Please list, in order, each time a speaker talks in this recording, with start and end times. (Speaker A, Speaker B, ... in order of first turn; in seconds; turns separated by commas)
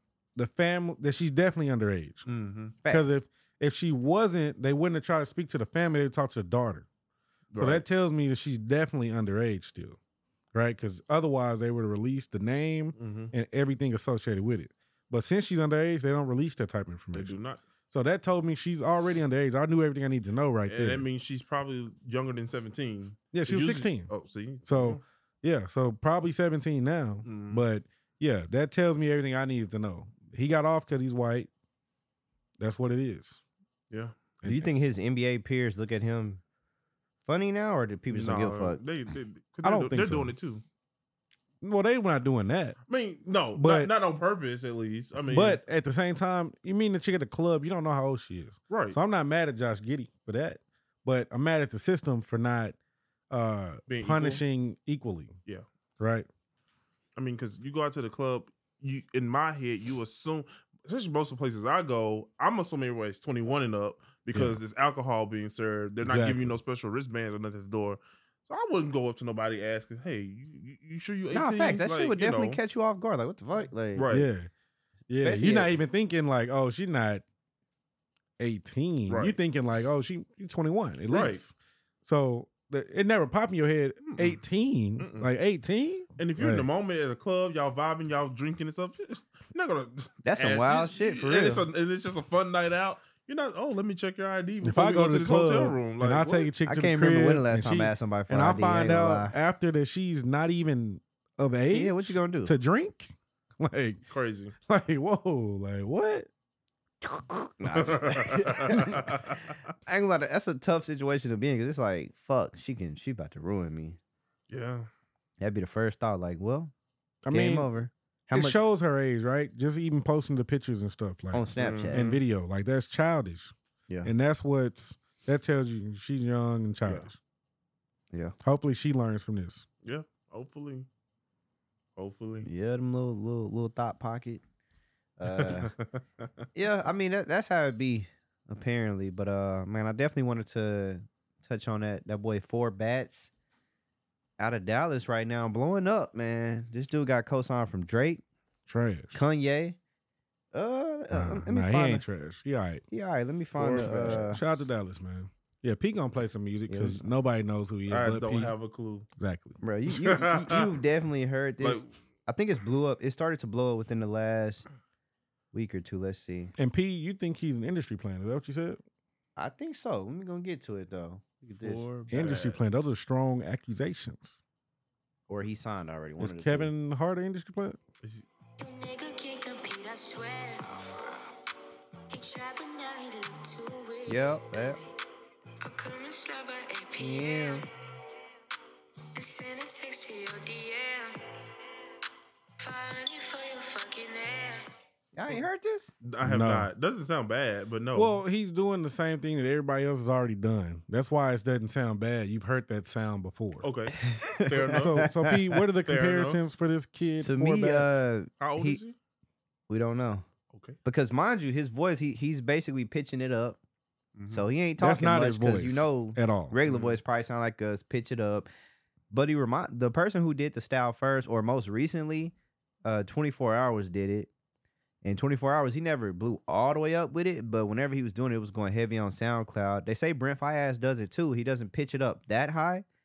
Speaker A: 0.3-2.3, Speaker B: 2.2-2.7, Speaker A: 2.9-6.9, Speaker B: 7.5-7.8, Speaker A: 7.6-10.0, Speaker A: 10.5-17.3, Speaker B: 13.0-13.3, Speaker B: 17.1-17.6, Speaker A: 17.9-21.0, Speaker B: 20.6-25.0, Speaker A: 23.3-24.1, Speaker A: 24.6-31.5, Speaker B: 27.2-27.6, Speaker A: 32.6-33.4, Speaker B: 33.9-34.2, Speaker A: 34.4-34.7, Speaker C: 34.4-36.4, Speaker C: 37.2-38.8, Speaker B: 38.1-40.6, Speaker A: 39.6-40.3, Speaker A: 41.6-42.8, Speaker B: 42.9-45.6, Speaker A: 43.5-43.9, Speaker A: 45.3-52.8, Speaker B: 48.7-49.0, Speaker A: 53.3-55.4, Speaker B: 53.9-54.4, Speaker A: 56.0-56.3, Speaker B: 57.1-72.6, Speaker A: 66.0-66.6, Speaker C: 71.3-74.1, Speaker B: 73.9-74.3, Speaker A: 74.1-74.5, Speaker A: 75.1-77.2, Speaker C: 75.2-75.8, Speaker A: 78.4-86.7, Speaker B: 79.1-79.4, Speaker B: 81.1-81.4, Speaker B: 84.0-84.4, Speaker B: 85.0-85.3, Speaker B: 86.2-96.5, Speaker C: 90.2-91.7, Speaker A: 94.6-104.0, Speaker C: 96.7-99.3, Speaker C: 101.7-102.5, Speaker B: 104.1-104.5, Speaker A: 104.7-106.3, Speaker C: 107.1-109.2, Speaker B: 107.7-109.5, Speaker C: 109.9-114.0, Speaker B: 114.5-114.9, Speaker C: 115.4-116.7, Speaker A: 117.2-117.7, Speaker C: 117.3-118.6, Speaker A: 118.3-123.5, Speaker C: 121.3-122.0, Speaker B: 121.6-122.2, Speaker A: 124.0-127.2, Speaker A: 128.4-129.7, Speaker B: 129.8-130.9, Speaker B: 131.9-132.5, Speaker C: 132.4-134.4, Speaker C: 135.2-135.7, Speaker B: 135.3-136.3, Speaker C: 136.5-143.3, Speaker C: 144.4-148.2, Speaker A: 148.7-149.2, Speaker C: 149.1-149.8, Speaker C: 150.5-152.0, Speaker A: 151.1-152.8, Speaker C: 152.9-154.4, Speaker B: 153.6-154.6, Speaker A: 153.8-158.5, Speaker C: 156.7-157.0, Speaker B: 157.9-159.1, Speaker A: 159.2-159.6, Speaker C: 159.6-164.7, Speaker B: 159.9-160.8, Speaker B: 161.6-161.9, Speaker C: 165.5-166.5, Speaker A: 166.6-168.8, Speaker C: 169.4-171.9, Speaker B: 171.6-172.6, Speaker A: 172.1-174.4, Speaker C: 175.3-176.7, Speaker A: 176.2-177.8, Speaker D: 178.6-180.8, Speaker D: 182.1-184.8, Speaker C: 184.1-184.8, Speaker D: 185.6-187.6, Speaker C: 187.0-187.6, Speaker D: 189.1-191.2, Speaker D: 192.6-194.7, Speaker C: 195.1-195.9, Speaker B: 196.0-198.2, Speaker A: 196.2-196.7, Speaker A: 197.9-203.7, Speaker B: 203.6-205.1, Speaker C: 204.0-205.4, Speaker A: 204.8-208.1, Speaker B: 205.8-206.4, Speaker C: 207.2-208.8, Speaker B: 208.4-208.9, Speaker C: 209.7-210.2, Speaker B: 210.5-210.8, Speaker C: 210.8-213.6, Speaker B: 214.2-214.5, Speaker C: 214.3-218.5, Speaker A: 214.8-216.6, Speaker B: 216.7-217.0, Speaker C: 219.1-222.3, Speaker C: 222.8-224.3, Speaker C: 225.0-232.8